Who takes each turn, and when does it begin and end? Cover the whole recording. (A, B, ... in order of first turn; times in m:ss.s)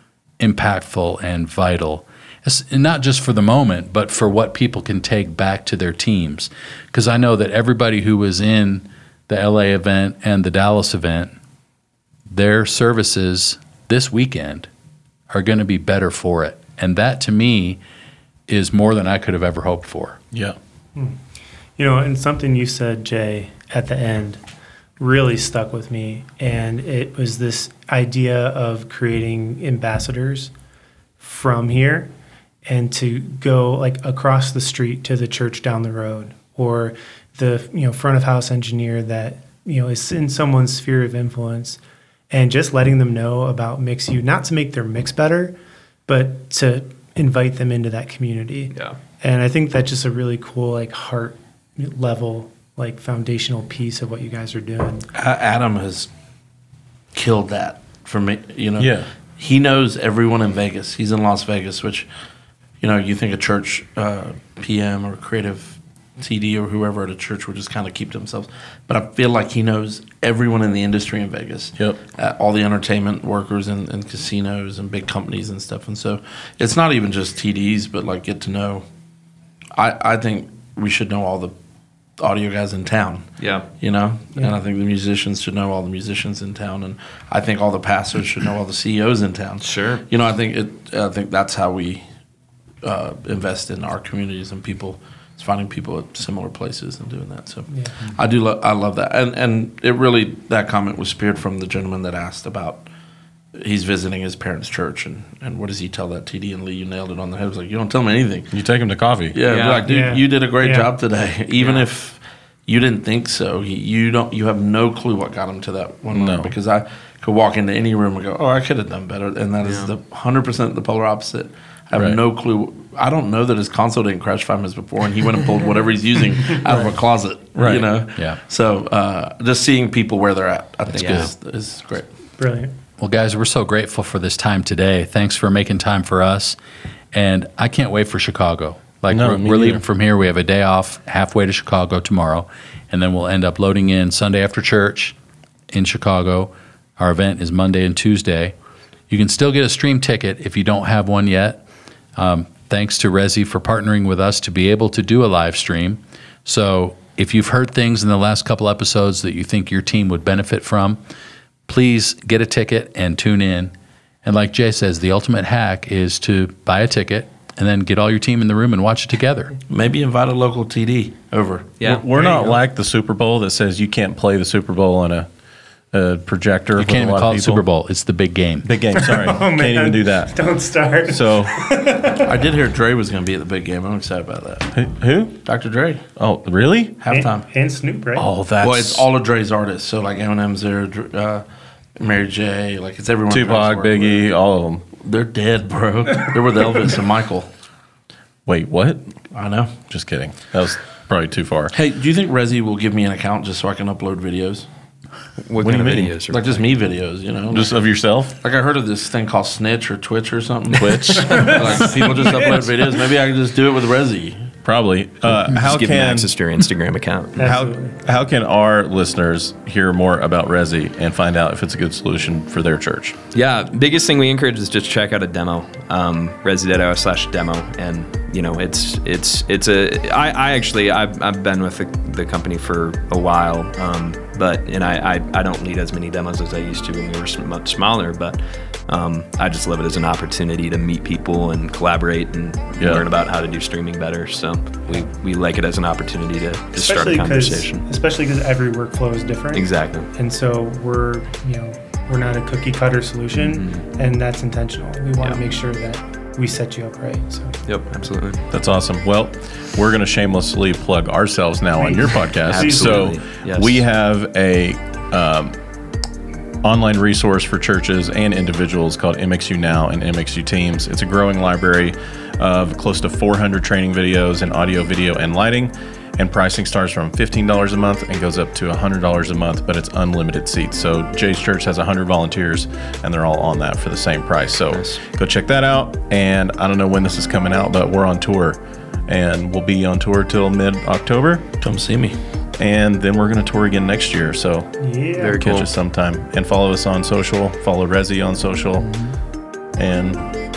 0:00.4-0:11.3 A
0:12.3-0:14.7 A
0:15.3-0:17.8 A
0:18.5-0:20.2 A
0:21.8-0:24.4 B
0:25.0-0:30.5 B
0:31.2-0:32.1 B
0:32.6-0:41.8 B
0:42.3-0:55.1 B
0:55.1-0:56.1 C
0:57.1-1:02.1 C
0:58.8-0:59.1 D
1:02.8-1:18.8 C
1:19.8-1:21.5 C
1:22.2-1:23.3 C
1:23.4-1:23.7 E
1:23.8-1:32.0 C
1:29.6-1:30.0 E
1:32.8-1:42.8 C
1:43.5-1:48.5 C
1:48.5-1:49.4 D
1:49.3-2:12.1 C
1:49.4-1:49.8 E
1:49.8-1:50.9 B
1:51.6-1:51.9 E
1:56.1-1:56.5 D
1:59.6-1:59.9 E
2:11.0-2:11.3 E
2:11.0-2:11.3 A
2:12.4-2:12.7 B
2:13.0-2:16.6 A
2:17.1-2:25.2 A
2:19.1-2:19.8 D
2:25.7-2:28.5 A
2:29.1-2:31.6 A
2:32.2-2:41.0 A
2:41.7-2:43.7 A
2:44.2-2:49.5 A
2:49.7-2:51.9 C
2:51.8-2:52.3 E
2:51.8-2:55.3 D
2:55.9-2:57.6 D
2:56.8-2:58.7 A
2:58.6-3:00.3 D
2:59.0-3:02.4 B
3:01.1-3:01.6 D
3:02.2-3:04.7 C
3:04.7-3:05.4 D
3:05.4-3:06.0 C
3:06.2-3:07.0 D
3:07.0-3:07.4 C
3:07.1-3:08.3 B
3:08.1-3:09.0 D
3:08.6-3:11.4 C
3:12.0-3:14.2 C
3:13.3-3:14.9 D
3:15.0-3:17.5 C
3:18.4-3:19.1 D
3:19.3-3:19.9 C
3:19.8-3:21.7 D
3:21.7-3:24.6 C
3:25.4-3:26.6 E
3:25.6-3:26.2 D
3:26.3-3:27.8 C
3:27.5-3:28.3 D
3:28.4-3:34.5 C
3:30.8-3:31.6 D
3:30.9-3:32.4 E
3:34.6-3:36.3 D
3:35.5-3:37.5 E
3:37.4-3:38.0 B
3:37.4-3:43.2 D
3:43.3-3:58.4 E
3:58.9-4:07.8 E
4:02.8-4:03.0 D
4:06.8-4:17.6 B
4:09.5-4:10.1 E
4:13.4-4:13.8 E
4:17.6-4:18.4 E
4:18.5-4:25.6 D
4:21.8-4:23.1 B
4:22.4-4:23.8 E
4:26.6-4:51.4 D
4:44.7-4:45.0 E
4:51.6-4:52.2 C
4:52.6-4:54.7 D
4:54.8-4:55.4 B
4:55.2-4:55.7 E
4:55.4-4:58.8 D
4:58.8-4:59.1 E
4:59.8-5:00.3 D